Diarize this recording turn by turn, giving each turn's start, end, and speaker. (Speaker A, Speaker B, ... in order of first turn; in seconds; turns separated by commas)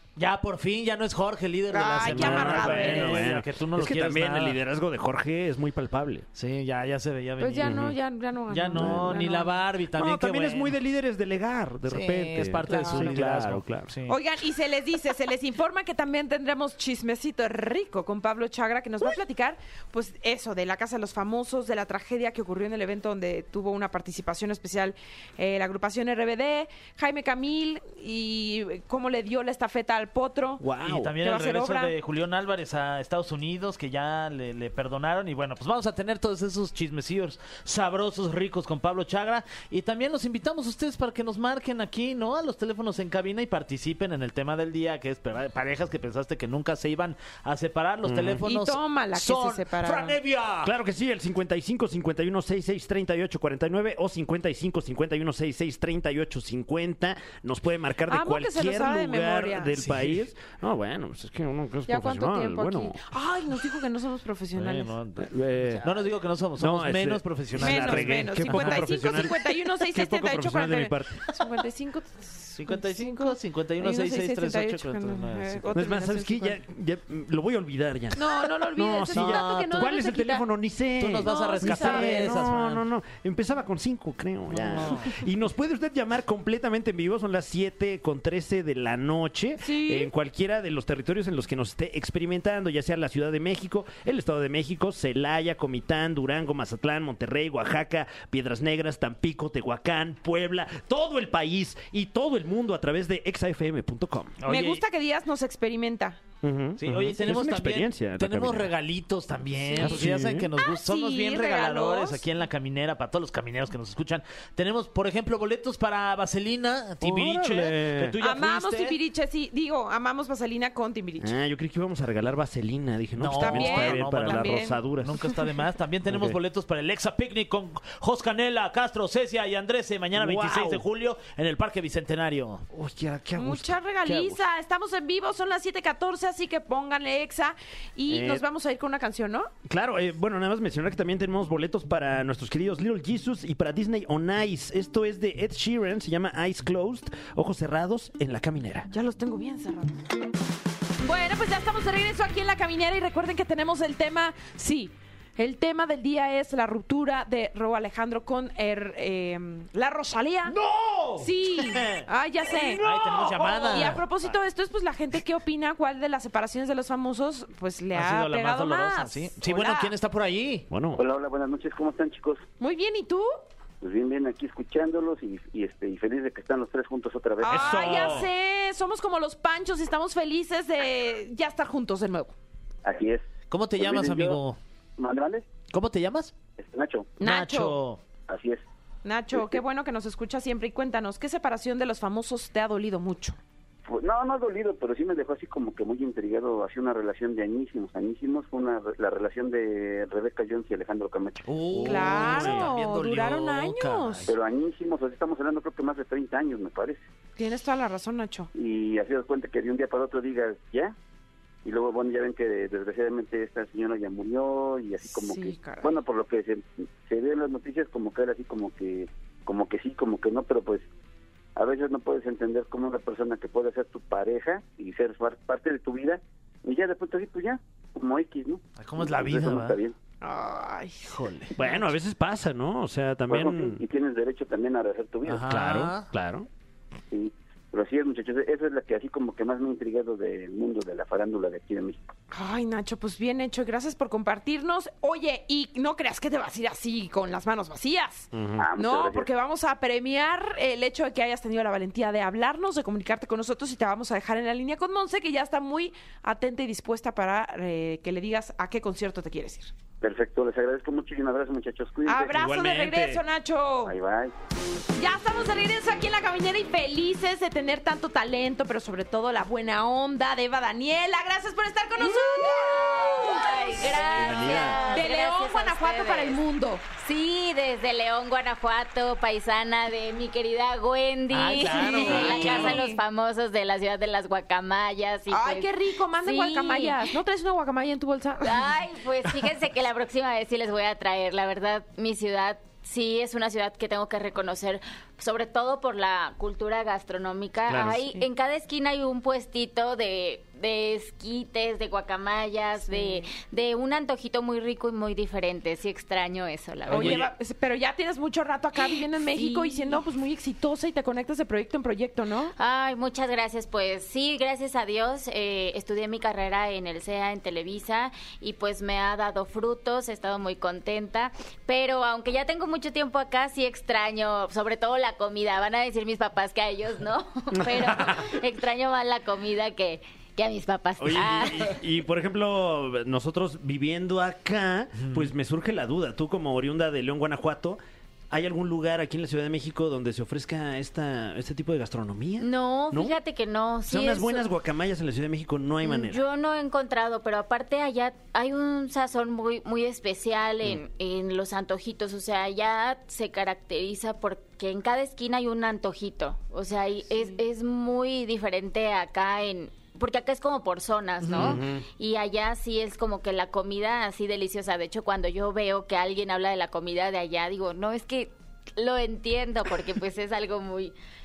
Speaker A: 0.2-4.6, Speaker B: 1.7-3.3, Speaker C: 2.0-6.3, Speaker A: 6.3-7.8, Speaker B: 7.4-9.5, Speaker C: 7.6-8.0, Speaker A: 8.5-10.8, Speaker C: 8.7-9.2, Speaker C: 9.9-14.0, Speaker A: 11.8-14.2, Speaker B: 12.6-13.2, Speaker B: 14.1-30.6, Speaker C: 30.6-31.1, Speaker A: 30.8-50.7, Speaker B: 31.2-31.9, Speaker C: 48.1-48.5, Speaker B: 48.4-50.2, Speaker C: 50.6-63.0, Speaker B: 58.1-59.9, Speaker A: 59.8-60.2, Speaker B: 61.9-65.0, Speaker A: 64.6-69.2, Speaker C: 65.2-65.9, Speaker C: 66.6-71.2, Speaker B: 67.6-76.6, Speaker A: 72.6-75.8, Speaker C: 75.7-104.4, Speaker B: 78.2-80.5, Speaker A: 79.1-80.0, Speaker A: 81.0-82.9, Speaker B: 81.2-82.5, Speaker A: 84.5-85.2, Speaker B: 89.6-90.1, Speaker A: 104.4-104.8, Speaker B: 104.5-106.2, Speaker C: 106.4-108.7, Speaker A: 106.8-119.0, Speaker B: 109.6-112.2, Speaker C: 109.8-110.5, Speaker C: 117.0-118.2, Speaker B: 118.2-121.3, Speaker C: 121.2-125.3, Speaker A: 123.2-132.7, Speaker B: 123.4-125.4, Speaker C: 126.1-126.4, Speaker C: 130.2-130.8, Speaker C: 132.7-134.4, Speaker B: 133.4-139.5, Speaker C: 138.1-138.4, Speaker C: 139.7-148.9, Speaker B: 148.9-150.1, Speaker B: 151.0-160.6, Speaker C: 160.5-161.3, Speaker B: 161.2-169.9, Speaker A: 161.7-164.0, Speaker C: 162.6-164.0, Speaker A: 167.9-170.7, Speaker C: 170.7-171.1, Speaker D: 171.0-172.4, Speaker B: 172.6-173.3, Speaker D: 173.8-177.8, Speaker B: 177.4-182.3, Speaker C: 177.5-178.3, Speaker A: 177.5-178.3, Speaker D: 182.8-183.2, Speaker A: 183.5-184.6, Speaker D: 183.8-184.4, Speaker D: 185.0-185.5, Speaker A: 185.7-186.3, Speaker D: 186.6-187.1, Speaker B: 187.2-187.8, Speaker A: 187.2-188.0, Speaker D: 188.3-188.6, Speaker B: 189.0-193.4, Speaker D: 189.3-189.6, Speaker D: 193.9-201.5, Speaker A: 201.5-204.3, Speaker C: 201.7-202.7, Speaker B: 201.8-204.3, Speaker D: 204.3-207.0, Speaker B: 207.4-208.5, Speaker D: 208.6-210.9, Speaker D: 211.7-220.9, Speaker B: 215.1-215.9, Speaker D: 221.6-229.9, Speaker A: 228.8-229.8, Speaker B: 230.2-231.8, Speaker A: 231.0-231.6, Speaker C: 231.6-233.8, Speaker D: 233.3-235.5, Speaker A: 235.3-236.1, Speaker C: 235.5-236.5, Speaker D: 237.1-242.1, Speaker B: 242.3-259.7, Speaker C: 248.3-248.7, Speaker D: 248.6-249.3, Speaker D: 260.0-262.3, Speaker B: 262.1-263.9, Speaker C: 262.3-263.2, Speaker D: 263.9-264.3, Speaker B: 265.0-276.8, Speaker E: 272.3-276.4, Speaker C: 273.9-275.0, Speaker E: 277.0-285.7, Speaker A: 281.3-282.8, Speaker B: 281.7-283.0, Speaker B: 285.3-288.7, Speaker E: 286.2-287.0, Speaker E: 288.4-307.2, Speaker A: 297.7-298.1, Speaker B: 302.9-303.3, Speaker A: 306.9-307.3, Speaker B: 306.9-312.5, Speaker E: 309.3-310.0, Speaker E: 312.6-331.8, Speaker C: 327.6-328.4, Speaker C: 331.0-343.2, Speaker A: 335.0-335.3, Speaker E: 342.4-344.5, Speaker C: 343.9-346.2, Speaker E: 345.8-370.9, Speaker A: 361.2-361.6, Speaker C: 361.3-361.9